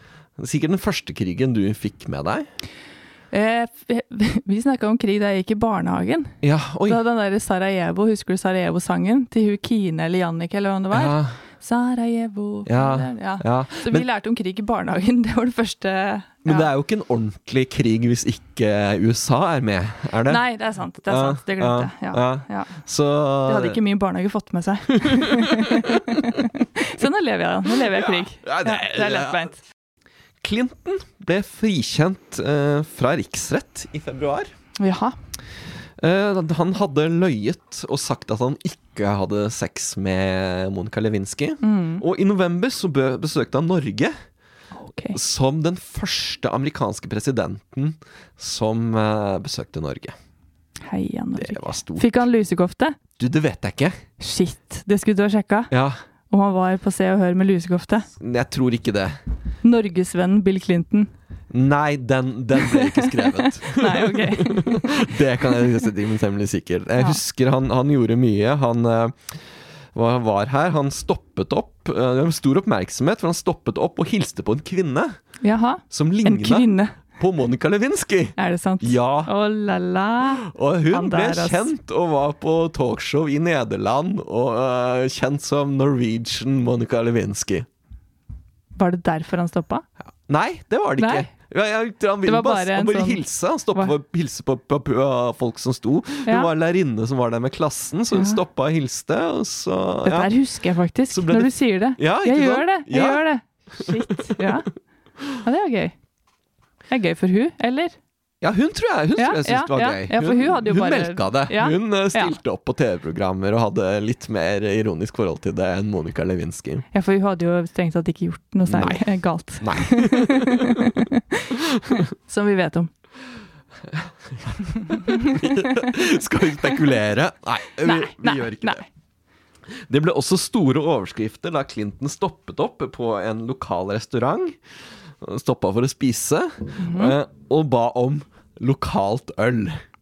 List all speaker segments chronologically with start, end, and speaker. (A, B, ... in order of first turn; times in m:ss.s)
0:00.4-0:02.5 A
0:03.3-0:16.7 B
0:06.4-0:07.0 A
0:10.9-0:11.4 A
0:12.6-0:14.1 A
0:16.4-0:20.4 A
0:20.3-0:22.8 B
0:21.1-0:23.8 A
0:23.5-0:29.6 B
0:25.0-0:26.4 A
0:27.8-0:29.5 A
0:30.4-0:34.5 A
0:34.8-0:35.2 B
0:36.0-0:44.1 A
0:41.6-0:42.0 B
0:44.7-0:45.2 B
0:45.1-0:50.1 A
0:50.9-0:53.0 B
0:51.4-0:52.1 A
0:53.2-0:54.0 A
0:54.2-0:55.7 B
0:55.7-0:56.0 A
0:56.3-0:58.1 B
0:58.2-0:59.2 A
0:59.6-1:01.1 B
1:01.5-1:09.3 A
1:02.6-1:05.0 B
1:09.9-1:15.2 A
1:15.4-1:16.9 B
1:15.9-1:19.3 A
1:18.4-1:21.7 B
1:20.5-1:27.7 A
1:28.8-1:29.8 B
1:30.3-1:40.3 A
1:31.0-1:31.3 B
1:32.2-1:33.2 B
1:38.1-1:38.4 B
1:40.0-1:44.7 B
1:41.1-1:43.2 A
1:43.8-1:44.5 A
1:45.4-1:45.9 B
1:46.9-1:47.9 B
1:48.4-1:56.8 A
1:49.2-1:52.3 B
1:56.9-2:01.5 B
1:58.7-1:59.0 A
1:59.6-2:00.9 A
2:01.6-2:02.0 A
2:02.3-2:02.9 B
2:03.9-2:08.8 A
2:05.1-2:05.6 B
2:07.8-2:08.8 B
2:09.8-2:14.6 A
2:15.2-2:19.8 A
2:16.8-2:17.1 B